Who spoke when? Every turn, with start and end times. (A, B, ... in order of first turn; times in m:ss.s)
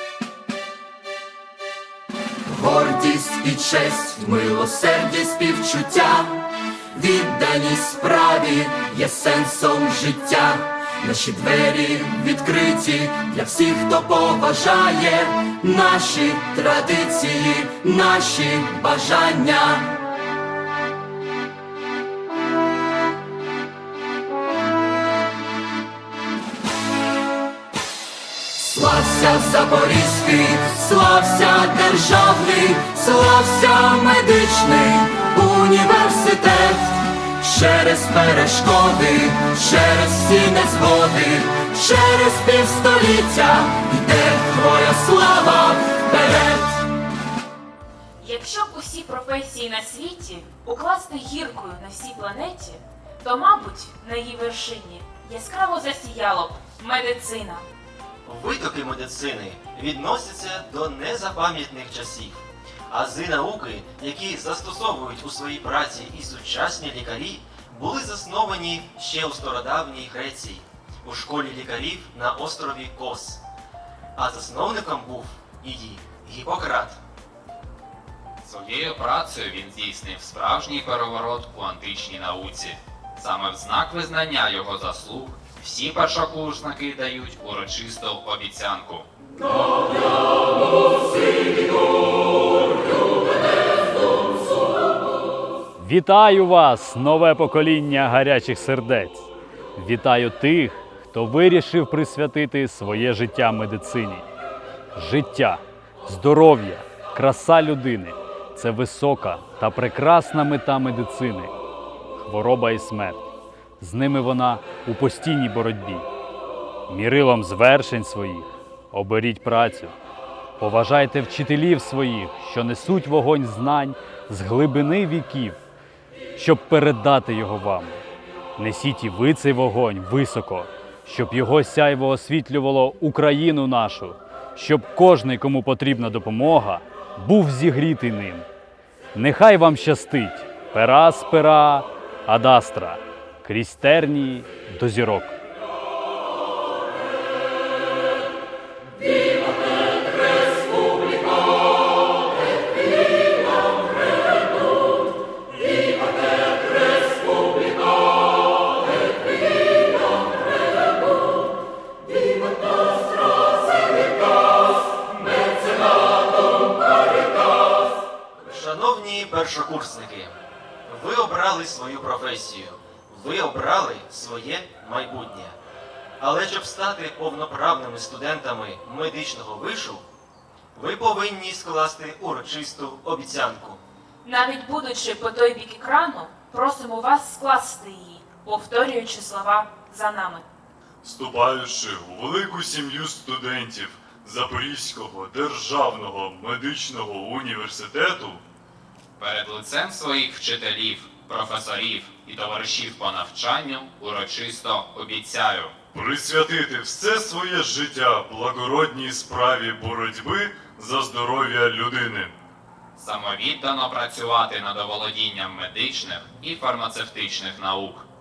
0:02.5-0:19.9 A
0:28.6-0:46.8 A
0:48.2-0:57.6 B
0:58.2-1:13.4 C
1:14.2-1:17.0 C
1:18.4-1:29.1 D
1:35.8-1:44.3 E
1:45.0-1:51.5 E
1:52.2-1:53.2 E
1:53.8-1:56.0 E
1:56.9-1:59.9 E
2:00.6-2:05.6 E
2:06.4-2:08.0 E
2:08.6-2:18.4 E
2:19.1-2:25.4 E
2:48.4-2:55.6 C
2:56.2-3:00.0 C
3:00.7-3:03.8 C
3:04.2-3:10.4 B
3:11.0-3:18.4 F
3:19.2-3:25.7 D
3:25.9-3:32.3 F
3:33.0-3:38.0 D